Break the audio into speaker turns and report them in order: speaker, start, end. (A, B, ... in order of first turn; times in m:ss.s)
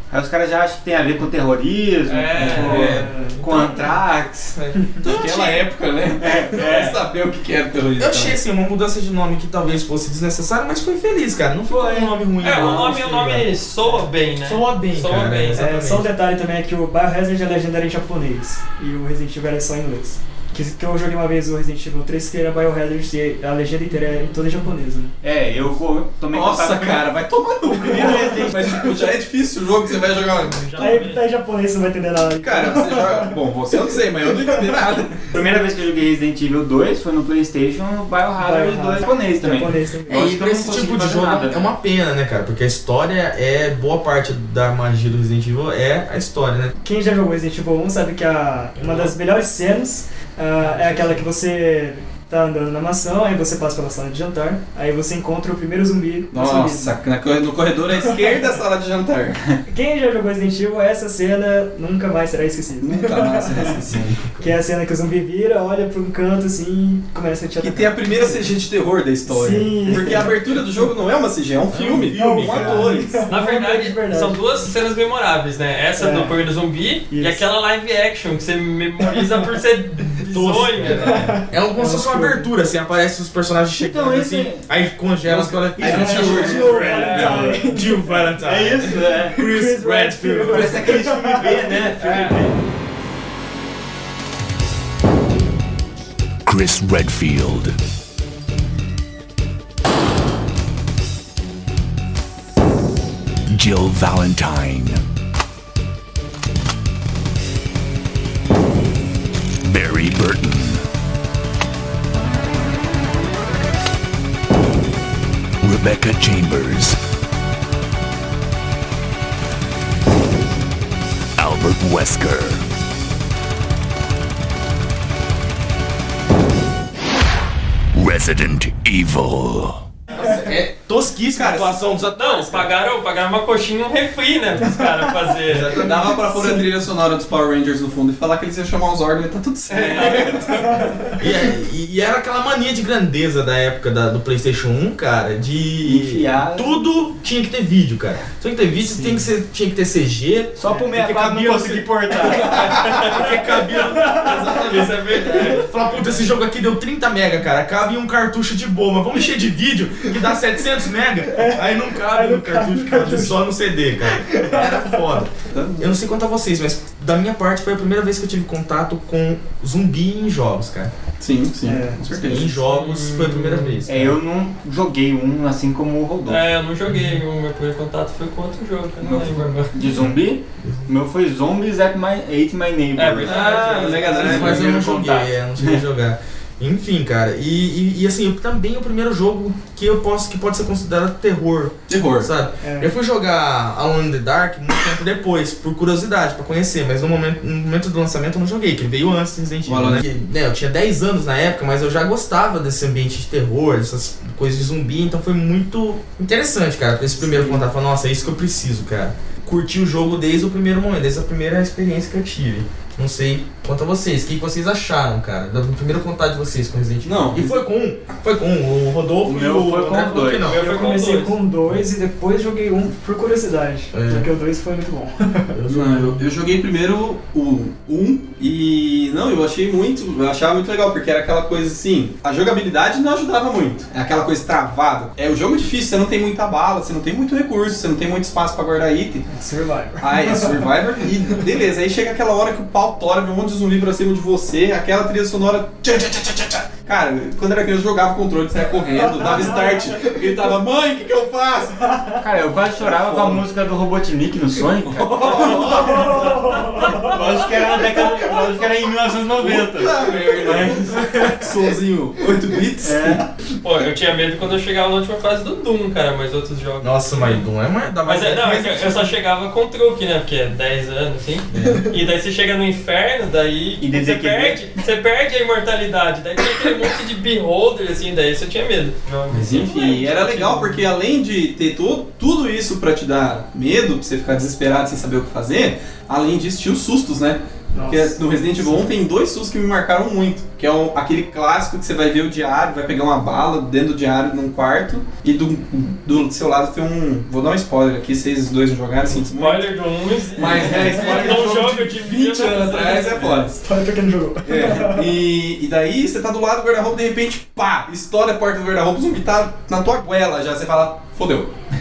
0:00.1-0:04.6 A
0:02.1-0:03.0 B
0:02.4-0:03.0 C
0:02.7-0:03.4 D
0:04.5-0:05.6 E
0:05.0-0:08.3 C
0:06.2-0:07.0 A
0:08.0-0:13.5 E
0:11.7-0:12.9 A
0:12.4-0:15.7 B
0:14.4-0:16.1 E
0:15.5-0:25.1 D
0:25.2-0:27.1 A
0:26.3-0:31.0 C
0:27.9-0:28.8 A
0:27.9-0:28.9 D
0:30.4-0:31.2 B
0:30.8-0:33.4 D
0:32.4-0:35.4 C
0:35.4-0:41.7 A
0:38.4-0:40.3 D
0:40.1-0:46.7 E
0:46.8-0:56.9 D
0:50.8-0:51.1 C
0:56.3-0:59.5 C
0:59.7-1:03.8 D
1:02.8-1:04.2 C
1:03.9-1:04.5 E
1:04.4-1:08.5 D
1:07.6-1:13.2 C
1:09.3-1:10.3 D
1:11.7-1:13.2 E
1:12.1-1:14.4 D
1:13.3-1:21.3 B
1:16.0-1:16.4 D
1:17.1-1:17.4 D
1:20.2-1:30.9 E
1:20.8-1:22.5 D
1:23.7-1:24.7 A
1:25.3-1:27.4 C
1:25.8-1:27.6 A
1:25.8-1:28.3 D
1:26.9-1:27.5 B
1:28.4-1:29.4 A
1:29.3-1:31.6 D
1:30.4-1:32.6 A
1:32.0-1:32.4 B
1:36.4-1:37.8 F
1:43.5-1:45.0 F
1:49.6-1:50.8 F
1:55.6-1:57.0 F
2:01.4-2:02.6 F
2:07.9-2:09.9 F
2:10.1-2:12.7 E
2:11.3-2:11.8 C
2:12.2-2:15.8 B
2:15.5-2:16.2 E
2:15.7-2:21.1 C
2:19.7-2:20.4 B
2:19.8-2:20.4 A
2:21.2-2:31.9 E
2:25.8-2:26.8 A
2:28.8-2:29.3 D
2:30.6-2:32.9 A
2:32.4-2:35.8 B
2:32.5-2:50.9 E
2:34.0-2:34.3 D
2:41.3-2:43.5 D
2:44.1-2:45.0 D
2:45.5-2:45.9 C
2:51.2-2:52.5 C
2:51.6-2:52.0 D
2:52.2-2:54.2 E
2:52.6-2:53.8 B
2:53.8-2:56.4 A
2:56.3-2:59.7 B
2:59.0-3:05.8 A
2:59.9-3:00.9 E
3:02.9-3:04.2 B
3:03.2-3:04.7 C
3:04.2-3:40.6 E
3:11.9-3:12.3 C
3:12.6-3:12.9 D
3:19.6-3:20.0 C
3:37.0-3:37.6 C
3:39.2-3:40.5 A
3:40.4-3:41.4 B
3:40.4-3:45.5 D
3:43.9-3:44.3 E
3:45.5-3:46.2 E
3:45.7-3:59.3 C
3:59.3-4:00.6 D
4:00.0-4:11.9 C
4:09.2-4:10.0 D
4:11.9-4:12.2 D
4:12.2-4:21.4 A
4:12.8-4:13.4 C
4:14.9-4:16.5 C
4:15.7-4:17.2 D
4:19.3-4:23.2 C
4:22.8-4:23.2 A
4:23.6-4:27.4 B
4:26.8-4:29.1 E
4:28.0-4:40.8 B
4:31.5-4:31.8 E
4:33.8-4:34.6 A
4:39.3-4:59.7 C
4:47.7-4:48.2 D
4:59.2-5:03.5 B
5:00.3-5:03.6 C
5:03.6-5:05.2 D
5:04.4-5:11.5 C